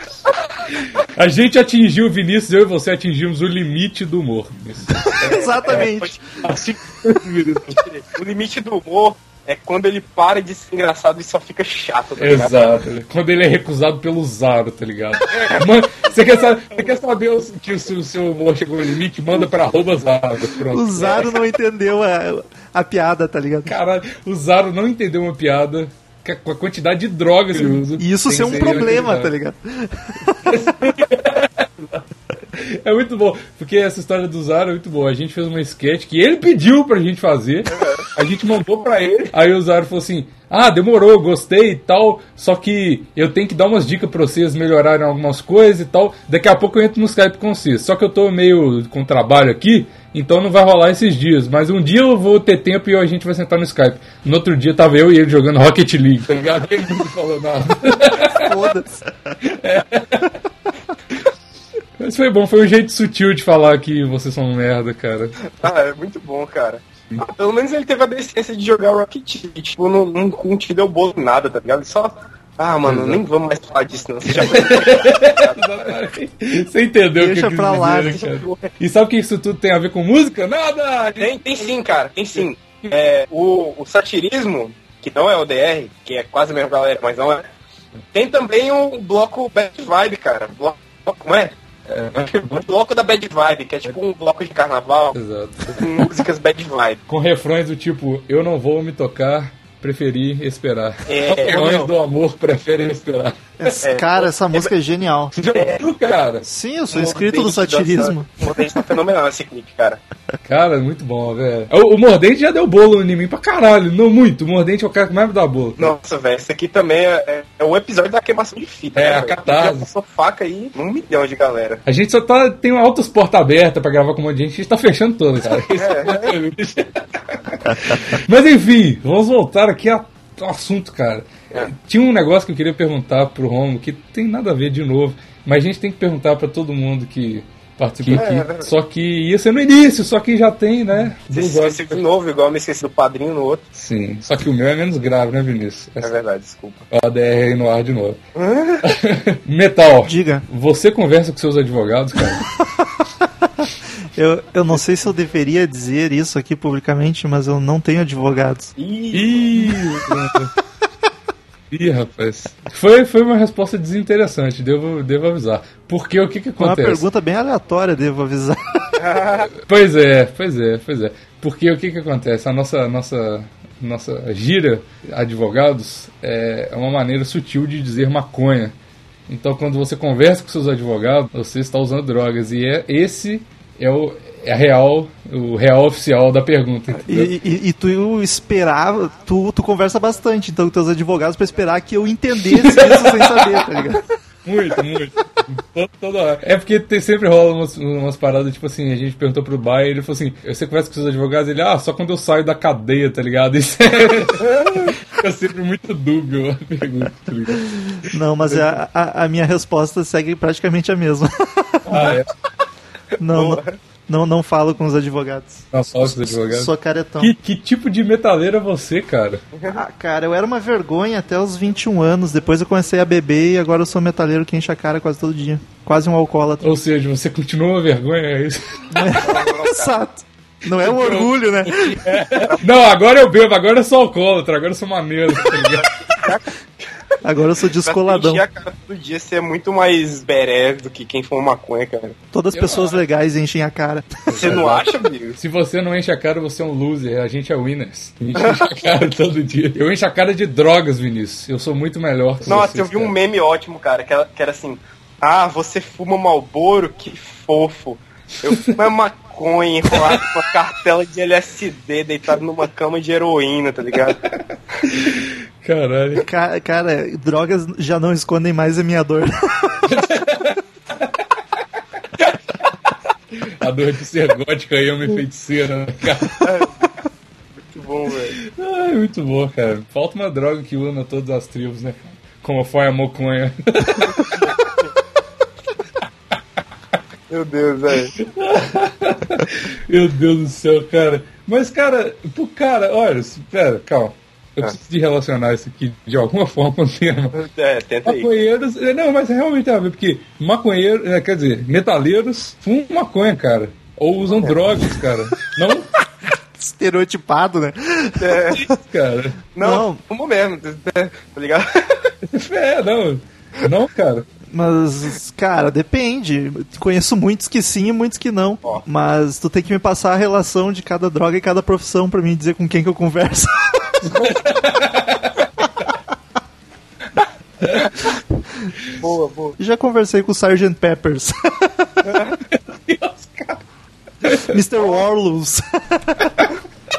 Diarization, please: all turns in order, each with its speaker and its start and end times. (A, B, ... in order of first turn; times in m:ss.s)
0:00.7-0:05.1 A
0:05.2-0:06.2 B
0:05.2-0:06.8 C
0:06.4-0:07.8 A
0:07.7-0:12.8 C
0:12.2-0:21.2 A
0:15.3-0:15.6 C
0:20.7-0:23.8 B
0:21.0-0:21.4 C
0:23.7-0:29.3 A
0:27.6-0:30.4 B
0:30.4-0:58.5 A
0:37.7-0:38.0 C
0:58.3-0:59.3 B
0:59.4-1:00.4 A
1:02.0-1:05.4 A
1:05.4-1:15.9 C
1:12.8-1:13.2 A
1:14.3-1:21.4 A
1:17.2-1:18.2 B
1:18.1-1:18.7 C
1:21.2-1:27.5 C
1:28.1-1:31.5 C
1:31.9-1:32.2 A
1:32.1-1:35.2 C
1:35.1-1:36.0 A
1:35.8-1:37.0 C
1:37.1-1:43.8 A
1:41.1-1:41.9 C
1:43.6-1:45.3 B
1:43.8-1:44.7 C
1:45.3-1:46.4 A
1:45.5-1:45.8 C
1:46.4-1:48.6 B
1:46.9-1:50.0 C
1:50.4-1:55.9 A
1:55.8-2:01.8 C
1:59.0-1:59.9 A
2:01.8-2:22.0 A
2:05.7-2:06.4 C
2:18.0-2:18.7 C
2:21.3-2:23.6 C
2:23.7-2:26.1 A
2:26.0-2:26.8 C
2:26.9-2:28.2 A
2:28.4-2:28.8 C
2:28.8-2:32.4 A
2:30.0-2:30.5 B
2:32.8-2:38.7 B
2:38.8-2:39.8 C
2:39.1-2:40.5 A
2:41.7-2:47.1 A
2:46.6-2:49.1 B
2:49.0-2:49.5 C
2:49.5-2:58.8 A
2:59.3-3:07.3 A
3:07.0-3:14.0 B
3:12.4-3:13.8 A
3:14.4-3:27.8 A
3:24.4-3:24.9 C
3:28.0-3:32.2 B
3:28.4-3:28.8 A
3:31.8-3:32.3 A
3:33.2-3:37.3 B
3:33.2-3:33.8 C
3:35.7-3:39.4 A
3:39.5-3:39.8 C
3:39.7-3:46.7 B
3:46.6-3:49.0 A
3:48.9-3:52.2 B
3:49.1-3:50.0 C
3:50.8-3:55.9 A
3:55.6-3:56.4 C
3:57.2-3:58.4 B
3:57.8-4:02.2 C
4:02.3-4:04.6 B
4:02.5-4:03.0 A
4:04.3-4:13.1 A
4:04.4-4:05.4 C
4:08.4-4:08.6 C
4:12.4-4:24.2 C
4:19.9-4:20.2 A
4:24.9-4:26.2 A
4:26.2-4:29.8 B
4:29.9-4:31.1 A
4:33.4-4:36.4 A
4:36.4-4:36.9 C
4:37.6-4:38.4 C
4:38.4-4:44.5 A
4:44.1-4:44.9 C
4:47.3-4:48.1 C
4:48.2-4:57.3 A
4:57.3-4:58.3 C
4:58.0-5:05.9 A
5:06.6-5:08.6 B
5:08.2-5:08.6 C
5:08.5-5:09.4 A
5:09.6-5:12.1 C
5:09.6-5:10.0 B
5:12.3-5:14.3 A
5:14.5-5:24.1 B
5:24.0-5:25.5 A
5:27.6-5:27.9 A
5:29.0-5:29.6 C
5:29.6-5:32.2 B
5:32.0-5:32.4 C
5:32.5-5:33.6 A
5:34.2-5:34.6 A
5:34.4-5:36.4 B